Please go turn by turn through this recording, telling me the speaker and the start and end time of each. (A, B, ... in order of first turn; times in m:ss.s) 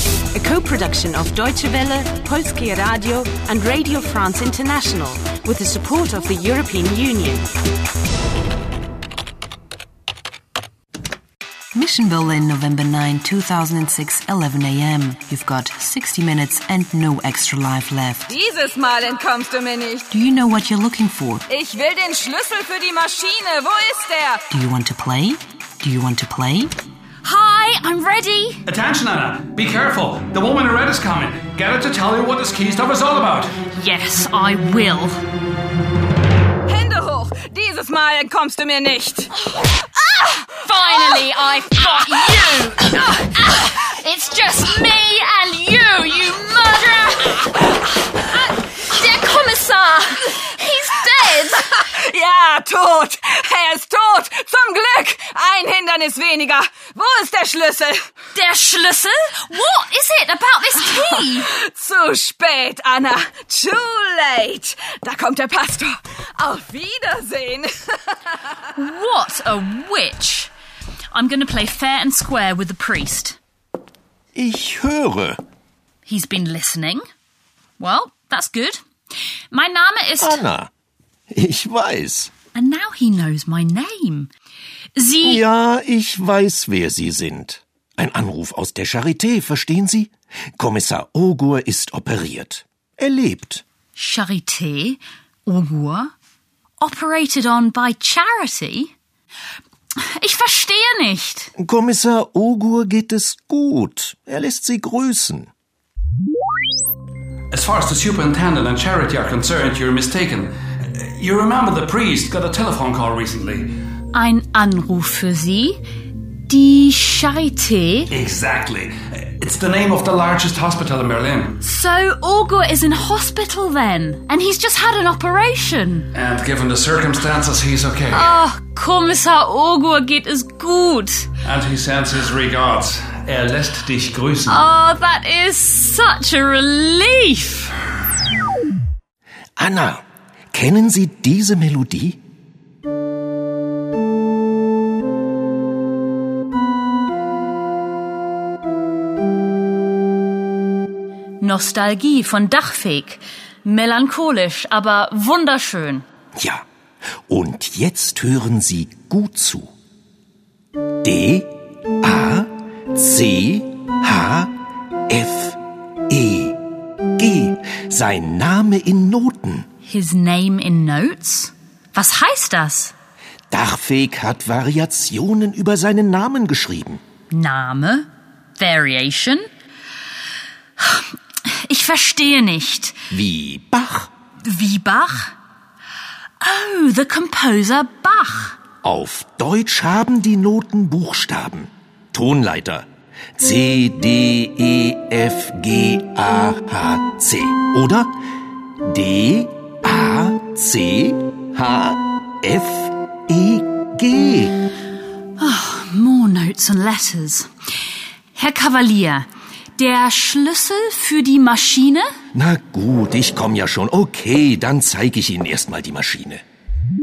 0:00.3-0:07.5 A
0:11.7-0:18.3 B
0:18.3-0:20.1 C
0:20.1-0:21.4 B
0:21.5-0:24.5 C
0:24.5-0:26.7 B
0:27.2-0:28.6 D
0:28.7-0:33.5 E
0:33.7-0:35.2 D
0:36.7-0:41.3 C
0:40.6-0:51.8 D
0:51.4-0:58.1 C
0:58.3-1:01.5 D
1:00.8-1:08.6 C
1:08.7-1:10.5 D
1:11.1-1:13.4 D
1:14.4-1:15.4 F
1:16.0-1:17.0 D
1:17.8-1:18.8 D
1:19.5-1:20.4 D
1:20.2-1:20.7 F
1:21.3-1:22.3 F
1:22.5-1:24.3 D
1:25.0-1:25.4 D
1:25.2-1:33.6 F
1:34.0-1:36.1 D
1:36.8-1:38.9 D
1:40.2-1:41.5 D
1:41.6-1:45.5 F
1:47.5-1:53.7 E
1:54.1-1:55.8 D
1:56.5-1:58.1 D
1:58.1-2:01.6 E
2:01.6-2:06.1 D
2:06.1-2:08.4 E
2:08.1-2:11.3 D
2:11.4-2:14.6 E
2:14.5-2:17.7 D
2:19.6-2:22.2 F
2:31.4-2:36.1 D
2:36.4-2:36.6 F
2:37.3-2:39.7 F
2:41.0-2:41.5 F
2:42.0-2:44.5 F
2:45.1-2:46.6 F
2:47.2-2:49.7 F
2:49.8-2:52.9 D
2:53.5-2:57.0 F
2:57.3-2:59.5 D
3:00.8-3:03.0 D
3:03.1-3:04.1 F
3:04.4-3:05.3 D
3:06.4-3:08.6 D
3:08.8-3:18.2 F
3:18.8-3:24.6 F
3:25.4-3:27.5 D
3:28.3-3:32.1 D
3:32.3-3:36.4 F